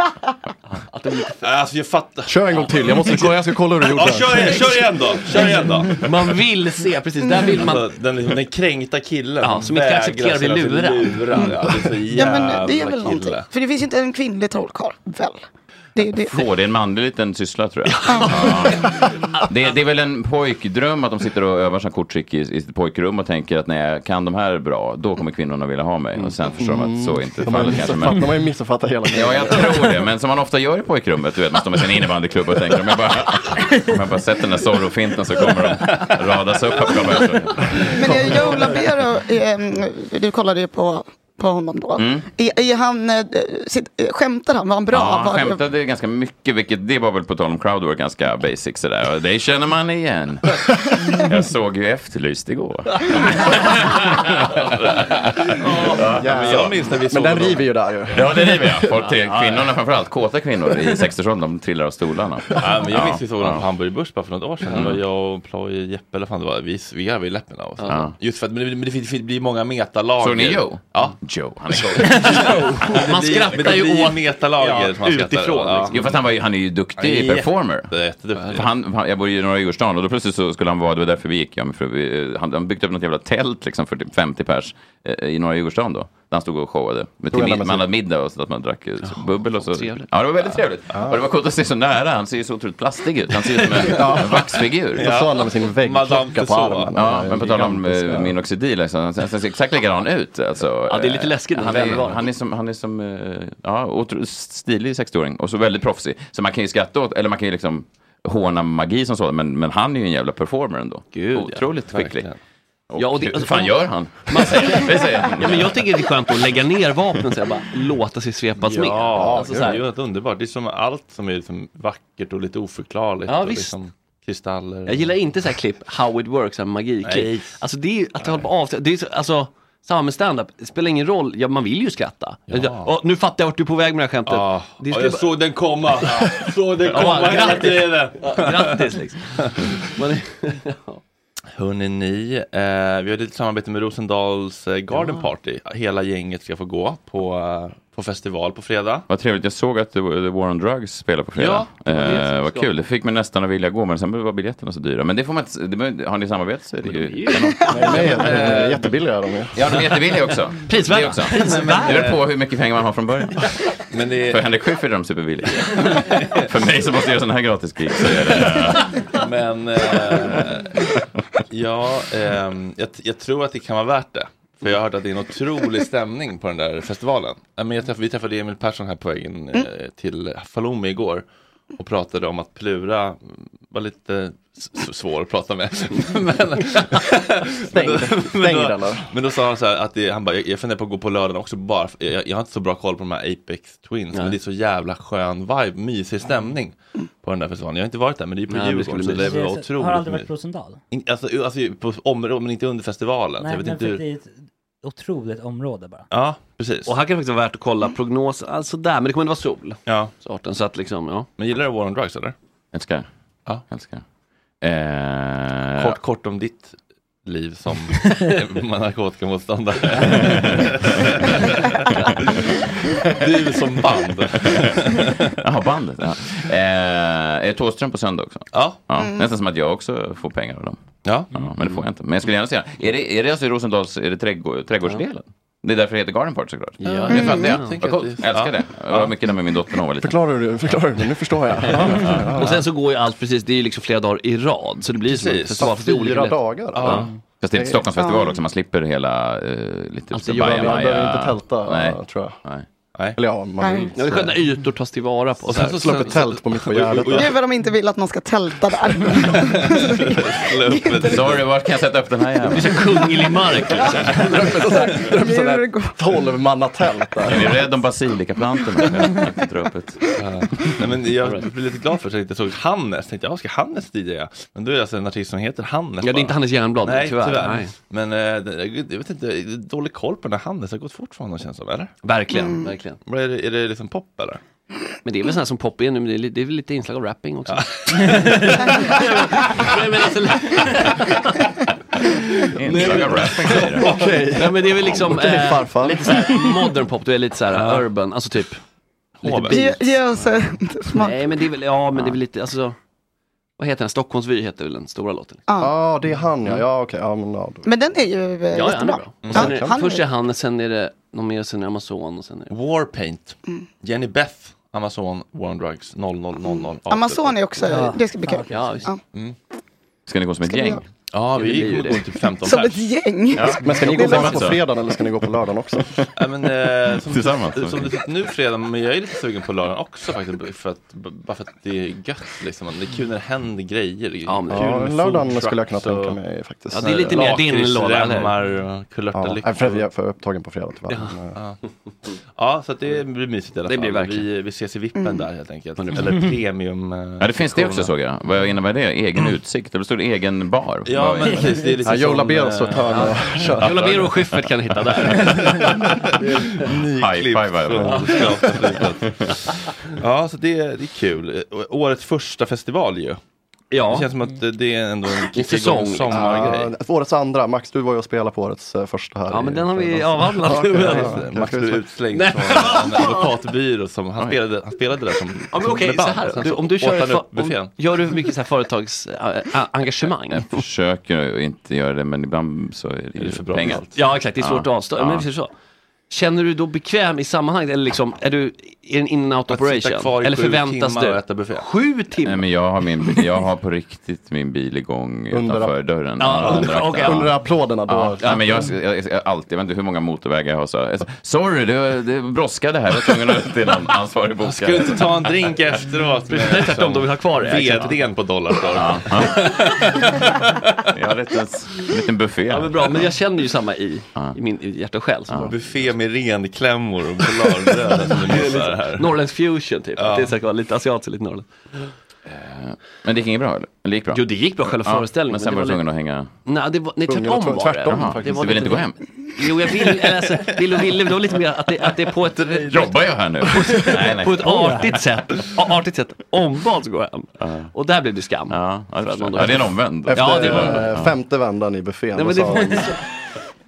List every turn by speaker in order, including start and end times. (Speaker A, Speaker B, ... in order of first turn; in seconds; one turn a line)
Speaker A: 0.7-1.4
Speaker B: 1.4-3.1
Speaker C: 2.3-4.6
Speaker A: 2.5-3.0
Speaker B: 3.9-6.3
Speaker A: 4.3-7.9
Speaker D: 7.2-7.5
Speaker B: 7.5-13.5
Speaker A: 9.4-11.5
Speaker D: 12.1-15.4
Speaker D: 15.9-16.4
Speaker E: 16.3-28.3
Speaker A: 17.9-19.5
Speaker C: 26.4-29.9
Speaker E: 29.1-37.9
Speaker D: 38.0-45.6
Speaker E: 42.0-42.3
Speaker E: 44.9-56.7
Speaker C: 56.1-58.9
Speaker B: 56.2-57.6
Speaker E: 58.1-63.6
Speaker A: 59.0-59.7
Speaker B: 62.5-71.2
Speaker E: 64.7-65.0
Speaker A: 67.8-68.0
Speaker E: 67.8-68.2
Speaker E: 70.2-72.6
Speaker B: 71.8-76.1
Speaker A: 71.9-76.1
Speaker E: 75.9-77.9
Speaker B: 77.0-78.7
Speaker E: 78.5-95.1
Speaker C: 87.3-87.8
Speaker A: 89.0-90.6
Speaker C: 93.8-98.3
Speaker B: 95.0-97.2
Speaker E: 96.9-112.2
Speaker A: 100.9-102.2
Speaker A: 111.1-111.7
Speaker B: 111.9-112.4
Speaker E: 112.9-115.9
Speaker A: 113.0-119.8
Speaker B: 118.6-125.2
Speaker C: 119.2-119.7
Speaker A: 123.3-123.7
Speaker A: 124.9-135.4
Speaker B: 127.0-127.5
Speaker B: 132.5-132.9
Speaker B: 134.2-139.9
Speaker A: 135.9-141.0
Speaker B: 141.5-149.1
Speaker A: 144.9-145.2
Speaker E: 149.1-158.4
Speaker B: 151.3-152.1
Speaker A: 151.8-152.7
Speaker A: 156.8-158.6
Speaker C: 157.7-159.6
Speaker B: 158.2-158.8
Speaker E: 159.5-163.5
Speaker A: 160.6-162.2
Speaker B: 161.3-162.2
Speaker B: 163.9-164.4
Speaker E: 164.3-169.0
Speaker B: 165.6-166.4
Speaker B: 169.1-170.8
Speaker B: 171.5-200.3
Speaker C: 187.7-189.1
Speaker A: 198.5-199.3
Speaker F: 199.2-200.8
Speaker B: 200.9-204.0
Speaker F: 203.4-206.1
Speaker B: 206.1-206.9
Speaker A: 206.8-211.3
Speaker B: 209.9-210.1
Speaker B: 211.4-212.3
Speaker E: 212.7-213.0
Speaker E: 213.7-214.0
Speaker E: 214.6-216.0
Speaker B: 215.8-222.3
Speaker E: 220.2-220.8
Speaker B: 223.1-225.3
Speaker E: 224.4-224.7
Speaker E: 225.4-230.8
Speaker B: 228.5-228.8
Speaker B: 231.0-231.3
Speaker E: 231.3-240.2
Speaker A: 236.8-237.8
Speaker B: 236.8-239.1
Speaker D: 237.1-237.4
Speaker C: 240.0-242.6
Speaker A: 241.7-247.1
Speaker E: 241.7-242.4
Speaker B: 245.1-245.7
Speaker C: 245.6-247.8
Speaker B: 246.7-247.1
Speaker E: 247.4-252.7
Speaker D: 247.9-248.3
Speaker A: 250.1-251.0
Speaker C: 250.3-252.3
Speaker C: 253.2-254.3
Speaker D: 253.6-253.9
Speaker A: 253.9-256.1
Speaker B: 255.5-257.3
Speaker C: 255.6-257.2
Speaker D: 257.1-260.2
Speaker B: 259.2-261.4
Speaker D: 260.7-261.1
Speaker E: 261.0-262.8
Speaker A: 262.4-264.9
Speaker C: 264.1-267.6
Speaker D: 265.1-266.0
Speaker E: 267.2-270.0
Speaker B: 270.2-281.9
Speaker A: 276.0-277.7
Speaker A: 282.0-283.0
Speaker D: 282.3-282.7
Speaker B: 283.1-284.4
Speaker A: 285.0-291.4
Speaker B: 287.5-288.5
Speaker E: 292.6-293.9
Speaker B: 292.7-294.0
Speaker A: 292.9-298.6
Speaker C: 293.8-296.2
Speaker B: 297.5-297.8
Speaker B: 299.2-299.6
Speaker A: 299.2-299.8
Speaker D: 299.5-301.4
Speaker A: 300.9-302.8
Speaker E: 301.9-302.2
Speaker A: 303.6-305.4
Speaker D: 305.5-305.8
Speaker C: 305.6-307.6
Speaker D: 307.6-310.1
Speaker A: 308.5-312.5
Speaker B: 309.2-309.5
Speaker C: 309.3-309.7
Speaker B: 312.5-317.4
Speaker D: 316.4-319.0
Speaker F: 317.7-318.8
Speaker A: 318.5-318.9
Speaker E: 320.1-320.8
Speaker D: 320.4-320.8
Speaker B: 321.1-322.8
Speaker A: 321.4-322.0
Speaker D: 322.4-324.5
Speaker E: 323.3-324.7
Speaker C: 323.6-325.9
Speaker B: 326.1-336.2
Speaker E: 327.0-328.0
Speaker A: 334.2-335.0
Speaker C: 334.5-337.1
Speaker A: 336.7-338.4
Speaker B: 336.8-339.8
Speaker C: 339.1-341.3
Speaker A: 340.9-341.1
Speaker B: 342.3-347.9
Speaker A: 343.6-344.3
Speaker D: 345.0-345.2
Speaker A: 345.8-346.3
Speaker E: 347.2-351.5
Speaker B: 350.8-354.0
Speaker C: 351.8-353.8
Speaker A: 352.9-355.9
Speaker B: 355.2-363.2
Speaker E: 356.9-358.2
Speaker A: 357.8-358.4
Speaker A: 363.7-364.1
Speaker B: 363.8-366.7
Speaker A: 365.2-366.6
Speaker C: 366.1-371.8
Speaker A: 369.3-371.2
Speaker B: 370.6-377.7
Speaker A: 372.1-373.3
Speaker A: 375.5-380.6
Speaker E: 380.2-385.3
Speaker B: 383.2-383.9
Speaker A: 383.6-385.5
Speaker A: 386.1-392.5
Speaker B: 389.5-391.7
Speaker E: 392.2-405.0
Speaker C: 395.3-398.3
Speaker A: 396.2-397.4
Speaker B: 404.4-410.0
Speaker A: 406.3-408.1
Speaker A: 408.6-410.1
Speaker E: 408.7-409.6
Speaker E: 410.9-413.1
Speaker A: 412.5-415.5
Speaker E: 415.3-415.6
Speaker B: 415.4-419.1
Speaker A: 417.6-421.5
Speaker B: 420.0-420.3
Speaker E: 422.3-426.3
Speaker A: 424.1-425.8
Speaker A: 426.4-440.9
Speaker C: 427.1-428.8
Speaker E: 427.9-429.0
Speaker E: 432.4-435.0
Speaker E: 437.4-437.7
Speaker E: 438.5-441.1
Speaker C: 440.1-442.9
Speaker A: 442.1-443.1